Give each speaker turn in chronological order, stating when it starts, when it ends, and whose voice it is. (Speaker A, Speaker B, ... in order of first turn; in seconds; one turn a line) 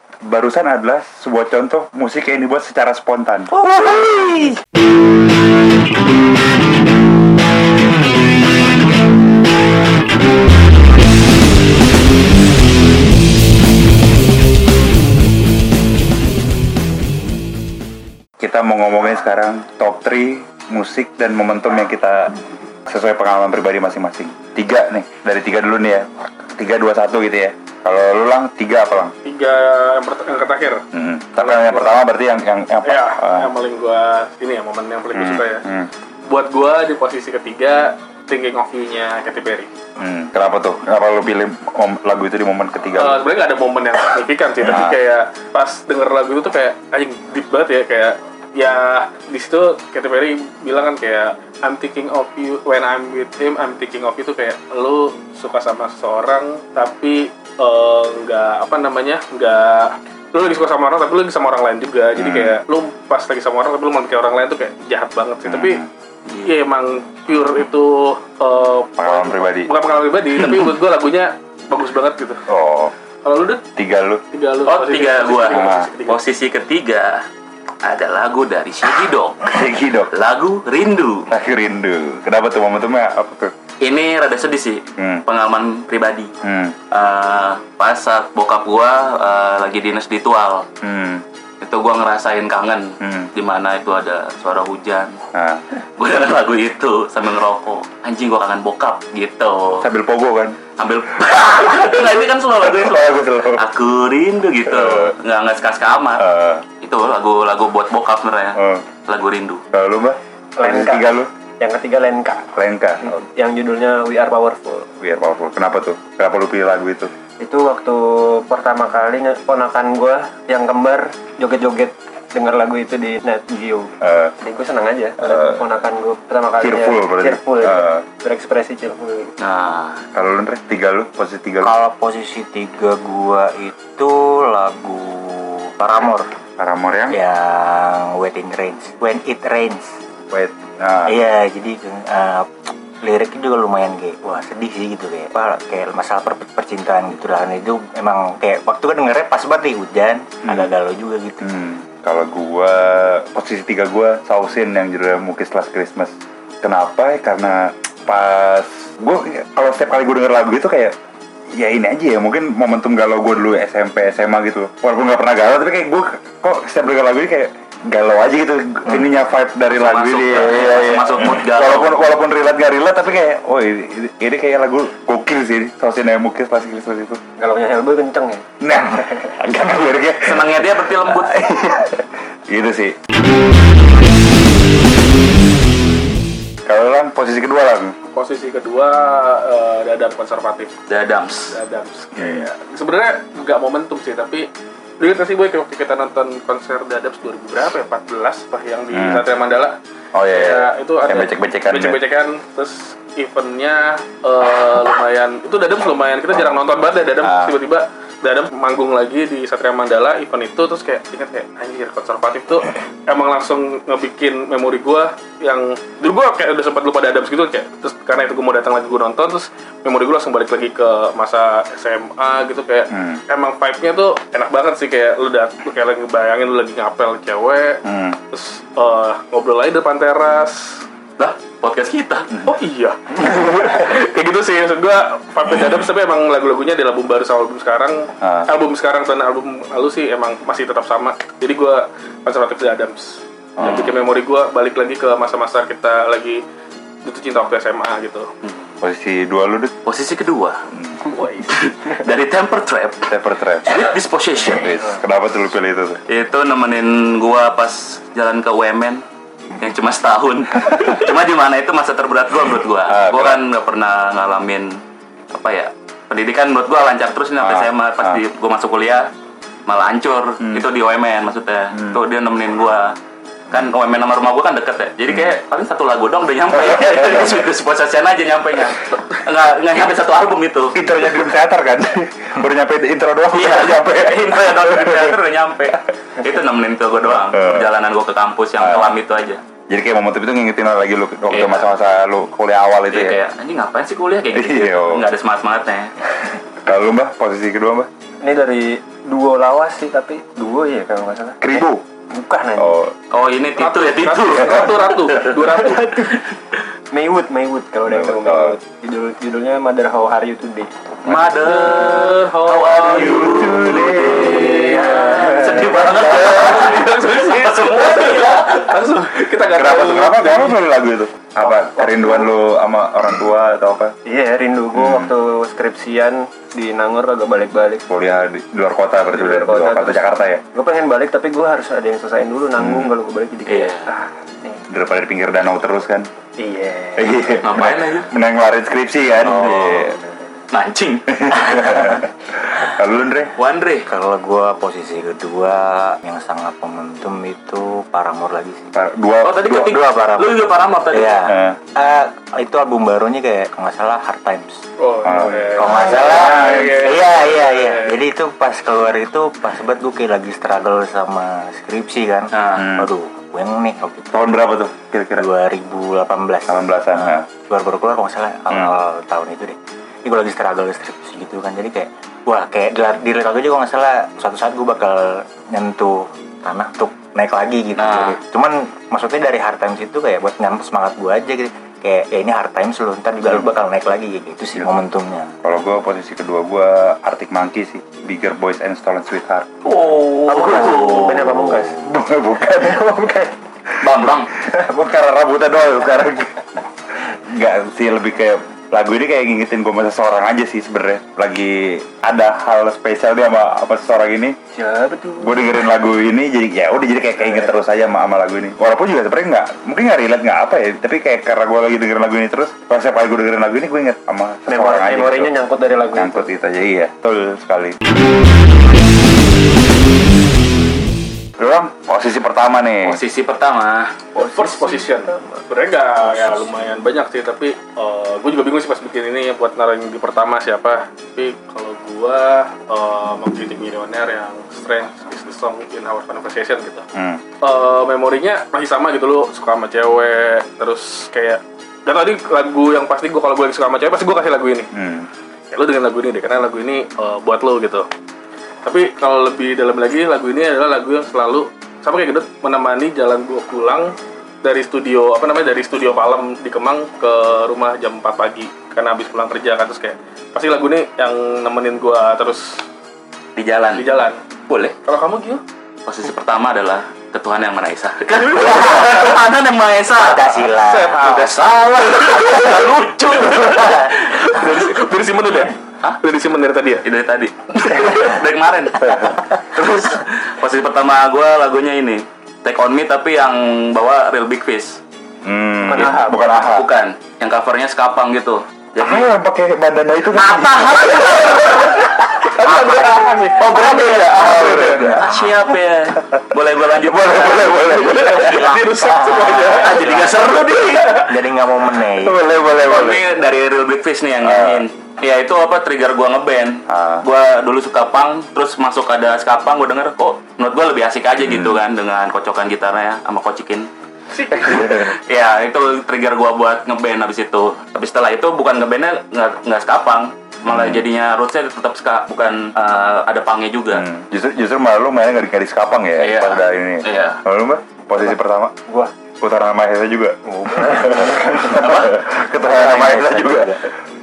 Speaker A: 0.2-3.6
Speaker B: 3.6-4.5
Speaker A: 18.4-29.1
Speaker C: 29.2-30.8
Speaker A: 30.9-33.5
Speaker C: 31.4-32.0
Speaker C: 32.8-35.7
Speaker A: 35.1-35.9
Speaker C: 36.3-39.7
Speaker A: 40.0-43.2
Speaker C: 43.0-65.8
Speaker A: 44.6-45.0
Speaker A: 62.1-62.6
Speaker A: 65.5-65.9
Speaker C: 66.4-72.4
Speaker A: 69.0-69.7
Speaker D: 70.4-70.6
Speaker A: 72.5-72.9
Speaker C: 73.2-73.6
Speaker A: 73.8-74.2
Speaker C: 74.3-76.2
Speaker D: 74.7-77.2
Speaker A: 75.5-75.9
Speaker D: 77.8-79.5
Speaker A: 79.5-80.1
Speaker D: 80.1-81.3
Speaker A: 81.3-83.5
Speaker D: 83.8-86.3
Speaker A: 85.0-85.2
Speaker A: 86.4-86.8
Speaker D: 86.9-90.7
Speaker A: 90.8-91.2
Speaker D: 91.6-95.2
Speaker A: 93.0-93.3
Speaker A: 95.3-95.6
Speaker D: 95.7-99.9
Speaker A: 99.8-100.6
Speaker D: 100.8-106.2
Speaker A: 102.6-103.6
Speaker A: 104.7-105.1
Speaker A: 106.2-106.6
Speaker D: 106.8-109.6
Speaker A: 108.5-108.8
Speaker A: 109.7-111.3
Speaker E: 110.6-112.5
Speaker A: 112.5-113.2
Speaker E: 113.0-114.9
Speaker A: 115.0-117.1
Speaker E: 117.4-129.3
Speaker A: 124.0-124.3
Speaker A: 125.2-125.6
Speaker A: 126.6-128.0
Speaker D: 129.4-130.0
Speaker A: 130.1-131.8
Speaker B: 131.6-136.3
Speaker A: 136.6-137.2
Speaker B: 137.1-140.0
Speaker A: 140.3-141.1
Speaker B: 141.1-151.5
Speaker A: 150.4-150.7
Speaker A: 151.4-160.9
Speaker A: 161.5-177.2
Speaker D: 169.7-172.0
Speaker E: 177.4-179.3
Speaker A: 178.6-182.9
Speaker D: 180.2-181.4
Speaker A: 186.7-187.9
Speaker C: 188.1-190.7
Speaker D: 190.9-191.5
Speaker C: 191.5-199.8
Speaker A: 192.1-192.5
Speaker A: 198.9-199.3
Speaker A: 200.1-202.0
Speaker C: 200.3-227.8
Speaker A: 207.2-207.5
Speaker A: 222.9-223.2
Speaker A: 227.8-228.2
Speaker C: 228.3-230.8
Speaker D: 231.2-232.3
Speaker C: 232.5-246.4
Speaker A: 238.2-238.5
Speaker A: 243.6-243.9
Speaker D: 243.6-243.9
Speaker C: 247.0-248.3
Speaker D: 248.4-248.7
Speaker A: 248.8-249.7
Speaker D: 249.8-250.6
Speaker C: 251.1-251.5
Speaker D: 251.5-253.1
Speaker A: 253.1-253.7
Speaker D: 253.6-254.8
Speaker A: 254.5-256.0
Speaker D: 256.1-259.0
Speaker D: 259.6-264.8
Speaker A: 262.9-263.4
Speaker D: 265.3-269.1
Speaker A: 267.4-268.2
Speaker D: 269.6-272.9
Speaker A: 271.7-272.0
Speaker D: 273.5-280.8
Speaker A: 275.1-275.4
Speaker A: 280.7-285.1
Speaker D: 283.3-289.4
Speaker A: 287.1-287.7
Speaker A: 288.6-289.0
Speaker A: 289.7-293.2
Speaker D: 291.3-291.7
Speaker D: 292.9-295.9
Speaker A: 294.3-295.1
Speaker A: 296.6-297.9
Speaker E: 298.2-302.8
Speaker A: 301.4-301.8
Speaker A: 302.6-302.9
Speaker D: 303.1-306.3
Speaker C: 303.6-306.0
Speaker E: 306.9-310.7
Speaker A: 307.9-308.6
Speaker D: 311.0-318.8
Speaker C: 311.4-313.6
Speaker A: 312.9-316.6
Speaker E: 314.0-316.3
Speaker C: 314.6-314.9
Speaker C: 316.2-320.6
Speaker A: 319.5-323.9
Speaker E: 321.4-322.3
Speaker E: 324.0-327.8
Speaker A: 324.7-325.1
Speaker A: 327.9-330.4
Speaker E: 329.1-334.6
Speaker A: 332.6-332.9
Speaker D: 333.4-333.9
Speaker A: 334.7-336.1
Speaker E: 336.4-337.1
Speaker A: 337.0-340.0
Speaker D: 337.4-338.1
Speaker D: 339.2-339.9
Speaker D: 340.5-341.8
Speaker A: 341.2-343.4
Speaker D: 343.4-343.9
Speaker B: 343.9-348.7
Speaker A: 348.7-349.8
Speaker D: 349.2-351.3
Speaker B: 349.6-364.3
Speaker A: 351.2-351.6
Speaker C: 354.8-358.0
Speaker A: 355.0-355.4
Speaker D: 355.7-356.2
Speaker A: 356.2-356.7
Speaker D: 362.3-362.7
Speaker A: 362.5-362.9
Speaker A: 364.1-365.3
Speaker B: 365.1-385.3
Speaker A: 366.5-367.2
Speaker A: 368.5-368.7
Speaker D: 377.7-378.2
Speaker A: 385.4-389.5
Speaker D: 389.6-391.5
Speaker E: 390.2-391.9
Speaker A: 390.8-392.9
Speaker E: 392.6-393.4
Speaker A: 393.7-396.4
Speaker D: 393.8-394.3
Speaker A: 397.0-404.3
Speaker E: 404.5-405.6
Speaker A: 405.2-415.3
Speaker E: 407.2-407.5
Speaker E: 414.5-416.3
Speaker A: 415.9-417.8
Speaker A: 421.4-423.0
Speaker D: 422.8-424.1
Speaker C: 424.1-436.8
Speaker E: 424.2-425.4
Speaker E: 426.0-426.5
Speaker A: 436.9-437.2
Speaker C: 437.4-444.7
Speaker A: 444.7-445.1
Speaker C: 445.5-447.9
Speaker C: 448.6-462.6
Speaker D: 463.4-463.8
Speaker C: 463.8-464.2
Speaker D: 464.5-464.8
Speaker C: 464.8-465.4
Speaker D: 465.9-474.2
Speaker C: 468.2-469.2
Speaker B: 470.0-471.1
Speaker C: 470.6-471.4
Speaker C: 473.4-476.9
Speaker D: 476.8-484.8
Speaker A: 485.2-486.7
Speaker E: 485.6-486.4
Speaker D: 485.8-489.1
Speaker A: 488.8-491.4
Speaker D: 490.1-501.1
Speaker C: 490.7-491.1
Speaker C: 492.4-494.0
Speaker A: 493.4-495.2
Speaker A: 496.8-498.5
Speaker C: 498.5-499.7
Speaker B: 498.8-500.0
Speaker C: 500.6-501.1
Speaker B: 501.0-502.3
Speaker A: 502.0-503.1
Speaker D: 502.6-513.7
Speaker A: 504.2-504.6
Speaker A: 506.7-507.1
Speaker A: 511.2-511.6
Speaker C: 514.1-514.5
Speaker D: 514.3-523.8
Speaker A: 514.5-514.8
Speaker A: 520.5-520.9
Speaker A: 523.7-528.5
Speaker D: 526.0-527.2
Speaker A: 529.2-533.7
Speaker E: 530.3-531.7
Speaker D: 531.5-531.9
Speaker B: 532.4-533.7